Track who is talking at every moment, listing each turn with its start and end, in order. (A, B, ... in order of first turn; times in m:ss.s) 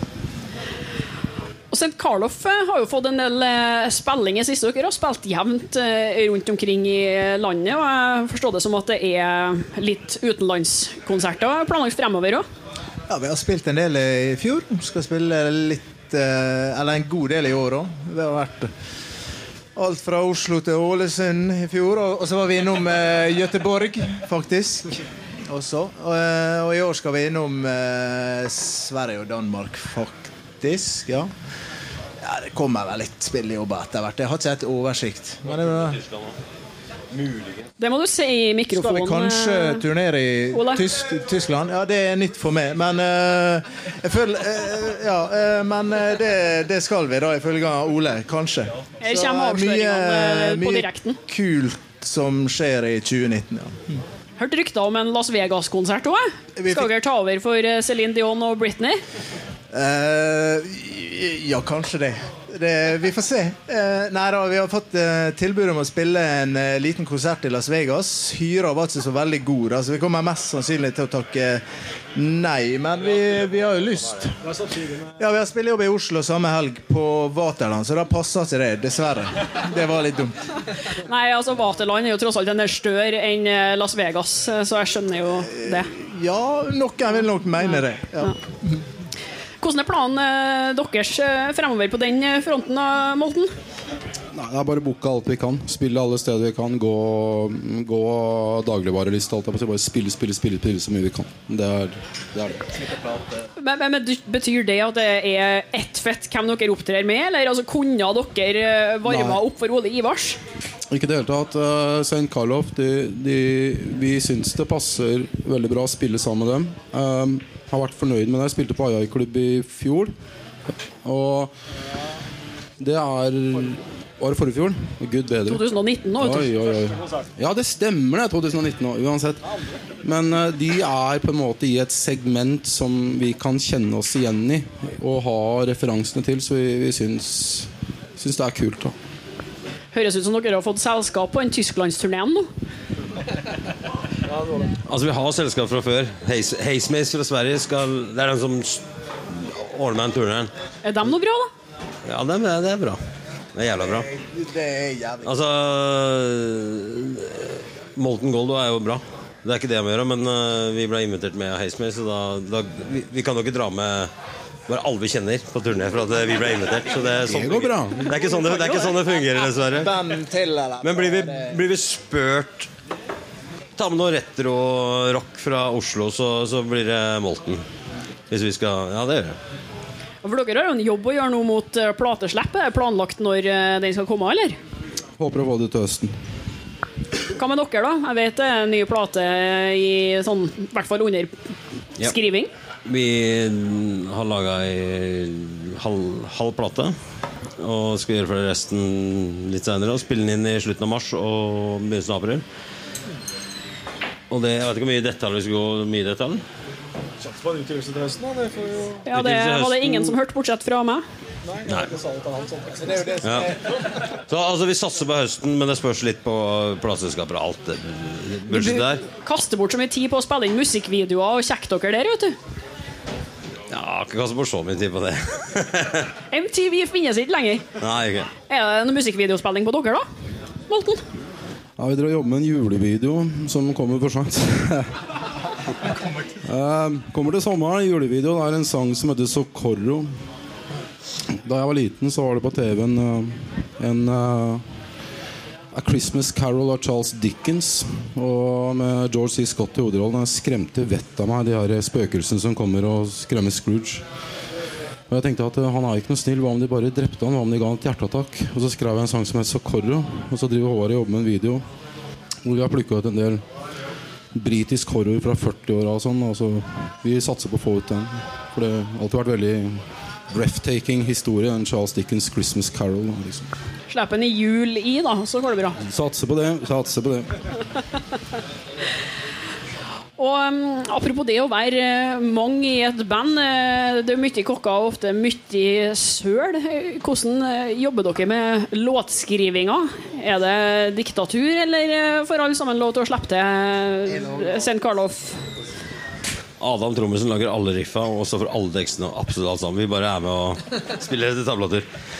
0:01.7-0:12.4 A
0:13.1-0:18.7 B
0:19.8-0:24.9 B
0:25.5-0:31.3 B
0:32.2-0:36.0 B
0:37.8-0:39.8 A
0:38.7-0:54.0 B
0:40.5-0:40.8 A
0:49.0-0:51.2 A
0:54.4-0:59.0 A
0:56.6-0:56.9 B
0:59.7-1:11.6 B
1:12.1-1:14.4 B
1:15.2-1:20.4 B
1:20.9-1:25.9 A
1:25.5-1:28.8 B
1:29.6-1:33.5 A
1:34.3-1:42.6 C
1:43.6-1:50.4 A
1:50.9-2:00.1 C
2:01.0-2:01.5 C
2:02.8-2:05.6 C
2:05.5-2:06.5 A
2:06.2-2:09.4 C
2:10.0-2:18.9 C
2:19.9-2:22.5 A
2:24.8-2:30.5 D
2:30.8-2:31.5 A
2:32.0-2:33.0 D
2:33.5-2:34.1 D
2:33.8-2:35.3 B
2:35.2-2:44.1 D
2:44.7-2:50.0 D
2:47.2-2:48.1 C
2:48.0-2:51.6 B
2:50.8-2:52.7 D
2:53.8-2:57.6 D
2:58.3-2:59.4 D
3:00.2-3:04.6 A
3:05.2-3:06.1 C
3:07.3-3:11.3 A
3:12.0-3:12.5 A
3:12.8-3:17.0 D
3:17.6-3:22.4 D
3:24.3-3:26.4 D
3:27.2-3:29.0 E
3:29.0-3:31.0 A
3:29.1-3:30.2 D
3:31.4-3:33.2 E
3:31.6-3:31.9 D
3:33.2-3:33.6 D
3:34.3-3:39.0 D
3:38.5-3:42.4 A
3:43.7-3:46.1 D
3:46.3-3:47.6 A
3:47.8-3:48.3 D
3:48.5-3:50.0 A
3:50.7-3:51.0 A
3:51.8-3:54.9 C
3:56.4-4:00.1 C
4:01.3-4:04.6 C
4:05.7-4:14.0 C
4:15.1-4:21.6 C
4:22.4-4:23.4 C
4:24.3-4:33.5 C
4:33.9-4:35.8 A
4:35.8-4:37.4 C
4:40.2-4:55.4 A
4:56.6-5:01.8 D